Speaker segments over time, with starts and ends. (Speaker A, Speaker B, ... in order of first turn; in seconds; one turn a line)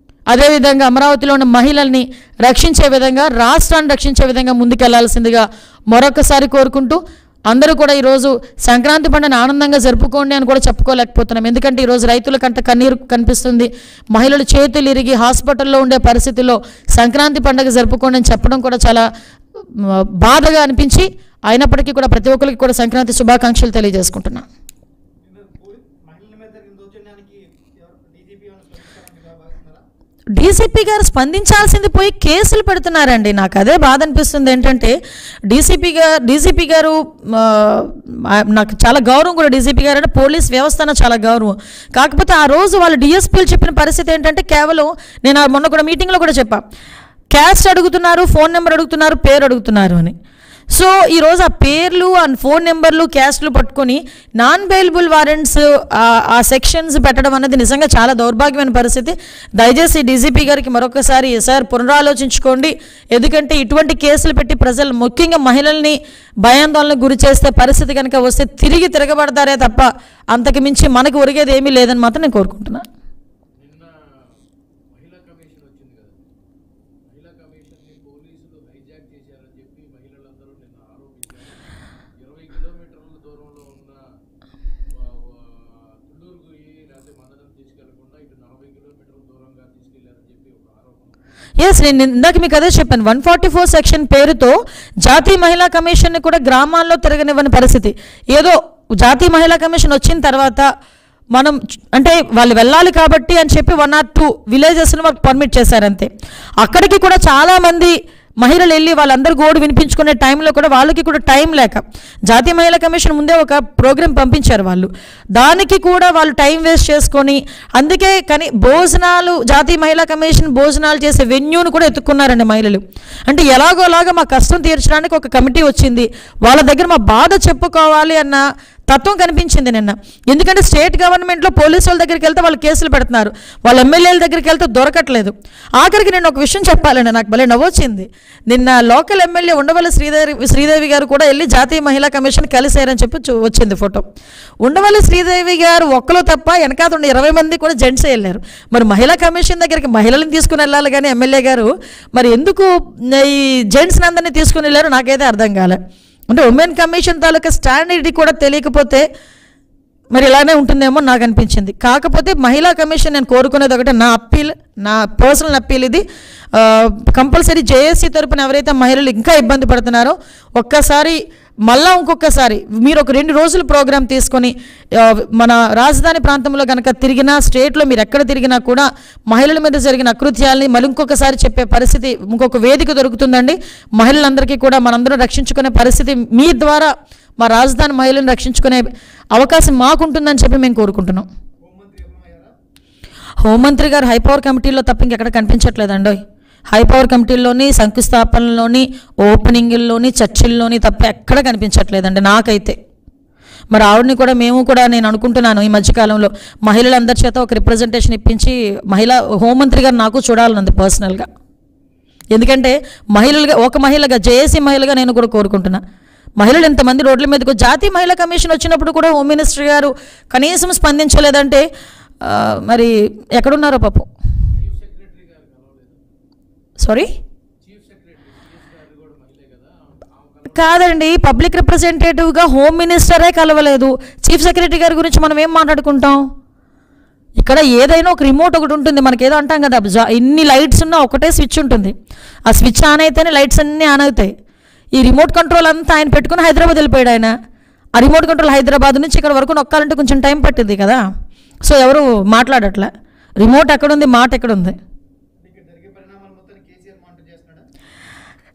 Speaker A: 0.3-19.1
Speaker A: 19.8-24.5
Speaker B: 25.2-29.8
Speaker A: 30.4-35.0
Speaker A: 35.5-46.6
Speaker A: 47.3-50.1
Speaker A: 50.7-72.8
Speaker C: 73.6-74.4
Speaker C: 74.9-76.2
Speaker C: 77.1-81.6
Speaker C: 82.2-84.0
Speaker C: 84.9-91.2
Speaker A: 91.6-100.7
Speaker A: 101.3-106.1
Speaker A: 106.6-144.1
Speaker A: 144.6-155.8
Speaker A: 156.3-159.1
Speaker A: 160.1-191.3
Speaker B: 191.6-192.5
Speaker A: 193.4-196.2
Speaker A: 196.7-202.8
Speaker A: 203.7-211.3
Speaker A: 212.3-215.8
Speaker A: 216.4-221.7
Speaker A: 222.2-224.1
Speaker C: 224.6-226.0
Speaker A: 226.8-227.1
Speaker C: 227.6-230.9
Speaker A: 230.5-236.3
Speaker A: 237.4-241.9
Speaker A: 242.5-244.3
Speaker A: 244.9-247.3
Speaker A: 248.0-251.0
Speaker A: 251.6-254.8
Speaker B: 255.4-257.6